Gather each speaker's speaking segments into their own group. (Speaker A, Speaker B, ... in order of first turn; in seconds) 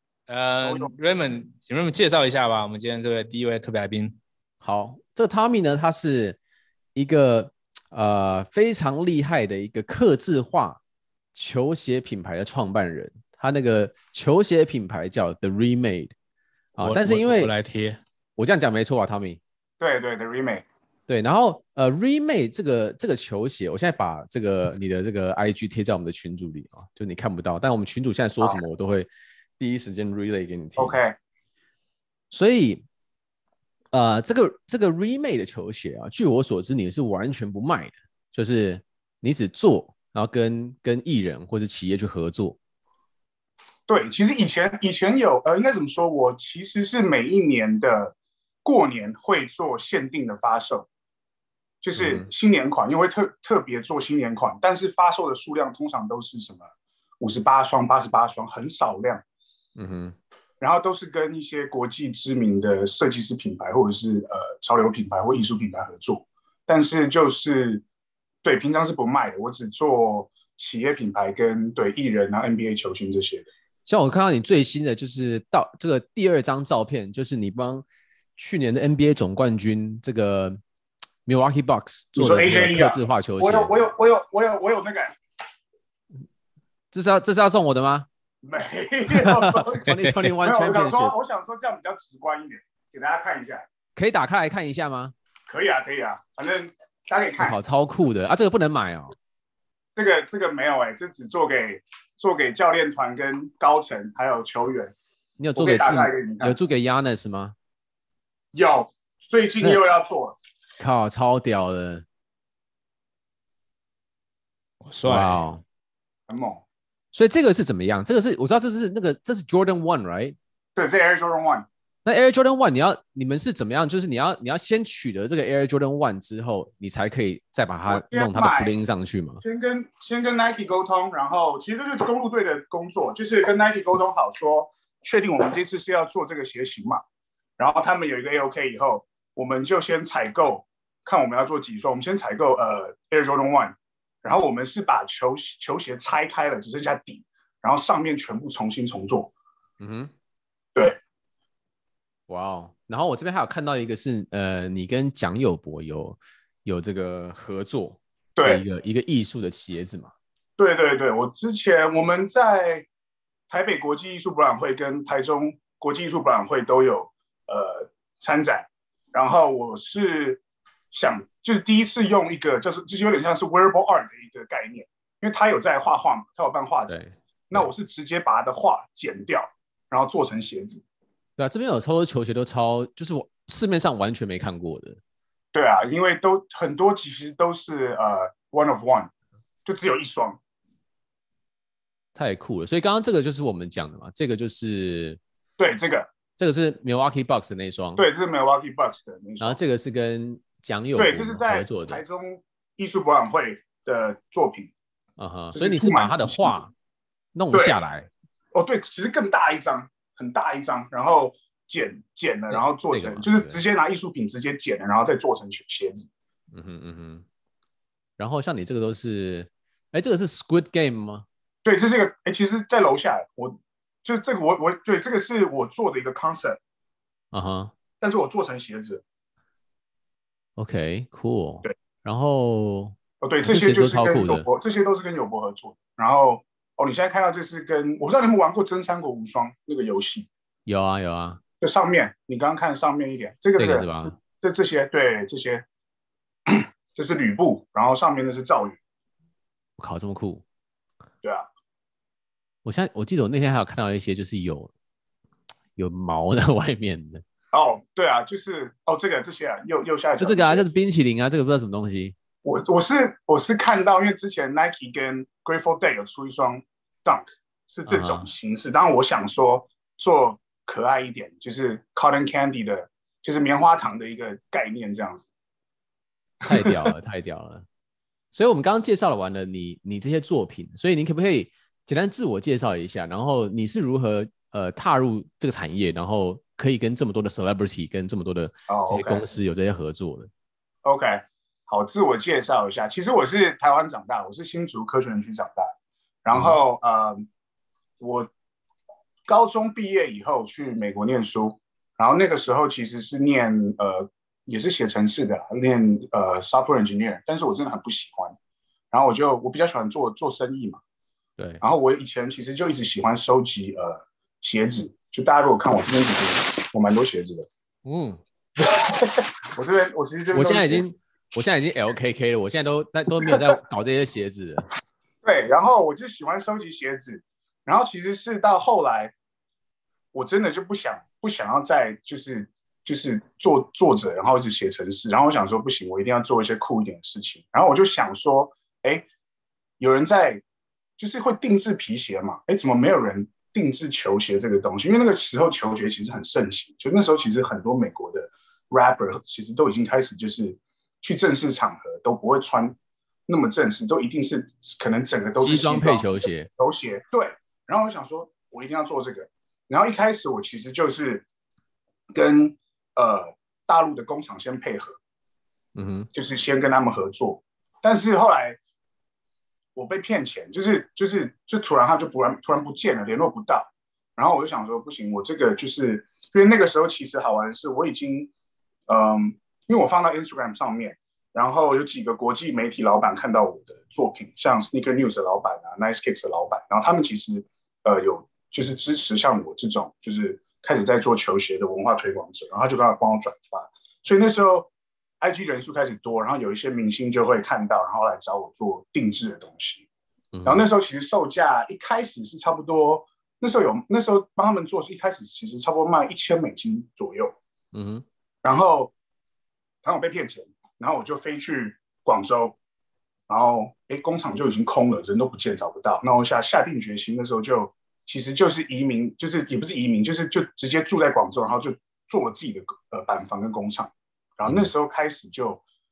Speaker A: 0.3-4.2, 16.8-18.0, 89.9-90.2, 114.8-115.4
Speaker B: 0.6-0.9, 19.8-20.6, 30.8-31.2, 43.9-50.9, 51.8-56.7, 57.2-59.2, 60.6-67.8, 68.4-73.5, 82.2-85.2, 88.4-93.7, 95.5-97.6, 100.0-105.0, 105.5-106.6, 108.5-110.4, 116.3-116.6, 120.8-121.7, 127.9-128.7, 129.4-137.0, 137.6-149.3, 158.4-158.6, 160.6-162.9, 163.5-177.0, 177.5-180.8, 185.5-189.1, 189.7-190.4, 195.6-196.1, 198.0-199.6, 201.0-204.7, 205.5-206.6, 208.5-216.1, 221.6-226.6, 228.0-229.0, 233.2-240.3, 241.6-245.7, 246.5-248.8, 251.2-251.5, 257.5-260.7, 262.4-275.3, 276.5-276.9, 288.7-289.3, 290.8-295.7, 296.2-297.3, 298.0-298.3, 299.3-308.4, 308.9-310.8, 311.6-317.5, 318.6-320.8, 325.2-329.1, 330.1-339.1, 339.8-340.4, 341.0-352.8, 353.3-361.2, 362.1-365.0, 366.1-368.6, 369.8-378.3, 378.9-394.7, 395.2-399.9, 400.4-407.4, 408.4-408.9, 409.8-412.6, 413.3-425.6
Speaker C: 4.6-6.4, 7.0-10.8, 11.3-16.1, 16.8-17.5, 18.4-19.4, 21.1-31.0, 32.3-32.8, 33.9-42.6, 52.0-52.3, 59.8-60.2, 73.8-77.8, 78.4-80.6, 81.3-83.8, 86.9-88.1, 89.2-91.2, 94.0-95.1, 97.4-99.1, 105.4-107.5, 110.8-112.0, 115.0-115.6, 117.1-120.4, 122.0-129.4, 149.8-150.1, 152.3-160.1, 176.9-177.7, 181.4-185.0, 192.2-195.2, 196.4-198.1, 199.4-202.0, 205.2-206.7, 207.3-208.1, 212.5-213.6, 216.5-217.3, 218.2-221.3, 227.3-227.7, 230.6-234.5, 240.7-241.4, 243.6-244.2, 249.8-250.4, 252.7-254.7, 255.8-257.2, 260.2-262.1, 267.9-268.3, 276.4-277.7, 278.3-290.3, 296.3-296.6, 311.4-311.6, 317.9-318.2, 320.3-324.7, 355.4-356.5, 365.8-366.1, 400.3-400.7, 407.7-408.1